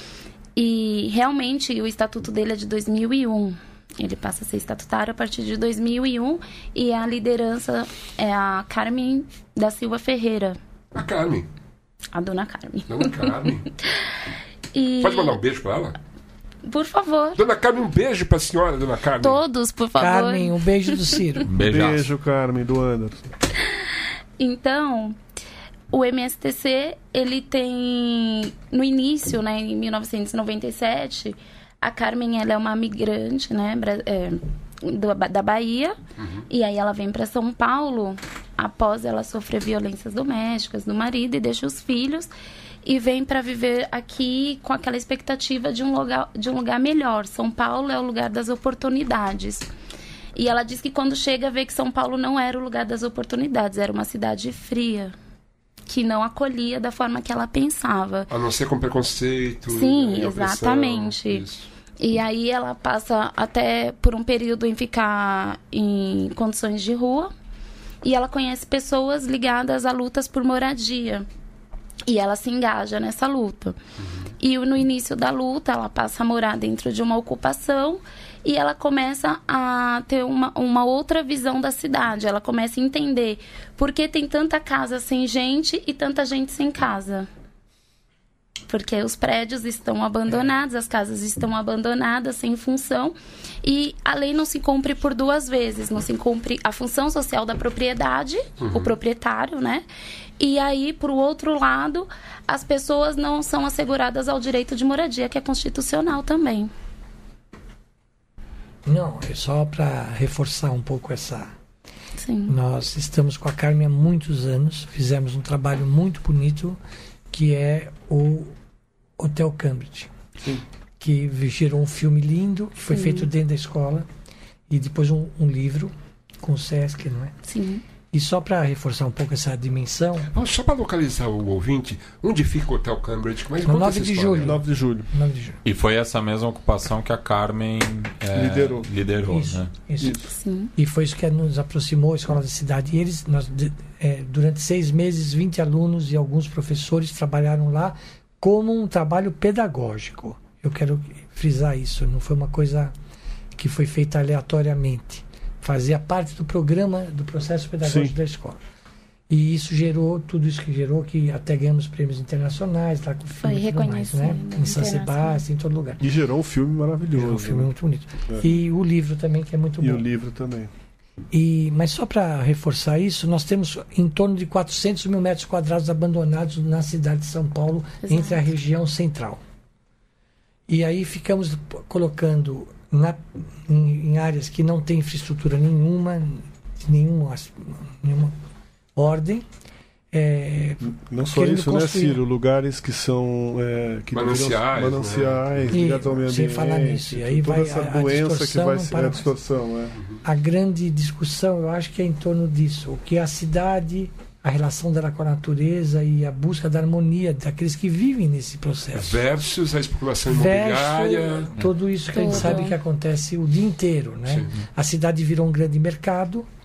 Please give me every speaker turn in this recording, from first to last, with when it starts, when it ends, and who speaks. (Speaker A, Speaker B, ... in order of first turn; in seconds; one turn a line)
Speaker A: 0.6-10.6
Speaker B: 10.9-11.5
Speaker A: 12.1-13.5
Speaker B: 12.9-13.7
Speaker A: 14.7-15.4
Speaker B: 15.0-15.9
Speaker A: 16.6-17.4
Speaker B: 17.4-19.4
Speaker A: 19.2-21.1
Speaker C: 20.0-21.5
Speaker D: 21.5-22.1
Speaker E: 21.6-23.3
Speaker A: 24.4-25.2
Speaker A: 25.9-36.0
Speaker B: 36.2-36.5
Speaker A: 36.5-42.3
Speaker A: 42.9-49.7
Speaker A: 50.4-55.1
Speaker A: 55.9-58.3
Speaker B: 58.3-61.7
Speaker A: 59.7-61.5
Speaker A: 62.0-67.3
Speaker A: 68.0-71.3
Speaker A: 72.1-73.8
Speaker B: 74.0-74.3
Speaker A: 74.4-87.3
Speaker A: 88.7-99.8
Speaker B: 98.6-99.0
Speaker A: 100.4-106.7
Speaker C: 108.9-111.5
Speaker A: 112.2-112.5
Speaker C: 112.5-116.8
Speaker C: 117.3-118.5
Speaker C: 119.2-120.1
Speaker C: 121.0-124.1
Speaker A: 122.9-123.3
Speaker C: 124.7-127.3
Speaker A: 127.5-127.8
Speaker C: 128.1-130.3
Speaker B: 130.3-134.6
Speaker C: 133.7-135.6
Speaker E: 134.4-135.1
Speaker D: 135.6-139.7
Speaker E: 138.3-138.9
Speaker C: 139.3-140.2
Speaker E: 140.0-140.3
Speaker A: 140.3-140.7
Speaker C: 140.8-152.9
Speaker C: 153.6-158.6
Speaker E: 157.8-158.2
Speaker C: 159.3-166.0
Speaker A: 163.4-165.4
Speaker E: 166.0-167.7
Speaker C: 167.2-170.0
Speaker E: 169.8-170.7
Speaker C: 171.3-179.4
Speaker A: 178.0-178.4
Speaker C: 180.7-188.3
Speaker C: 189.0-189.5
Speaker C: 190.1-192.2
Speaker E: 190.8-199.9
Speaker B: 194.1-195.8
Speaker C: 195.7-199.3
Speaker B: 199.9-200.2
Speaker C: 200.2-209.2
Speaker B: 208.9-211.5
Speaker C: 210.3-216.5
Speaker A: 212.1-212.8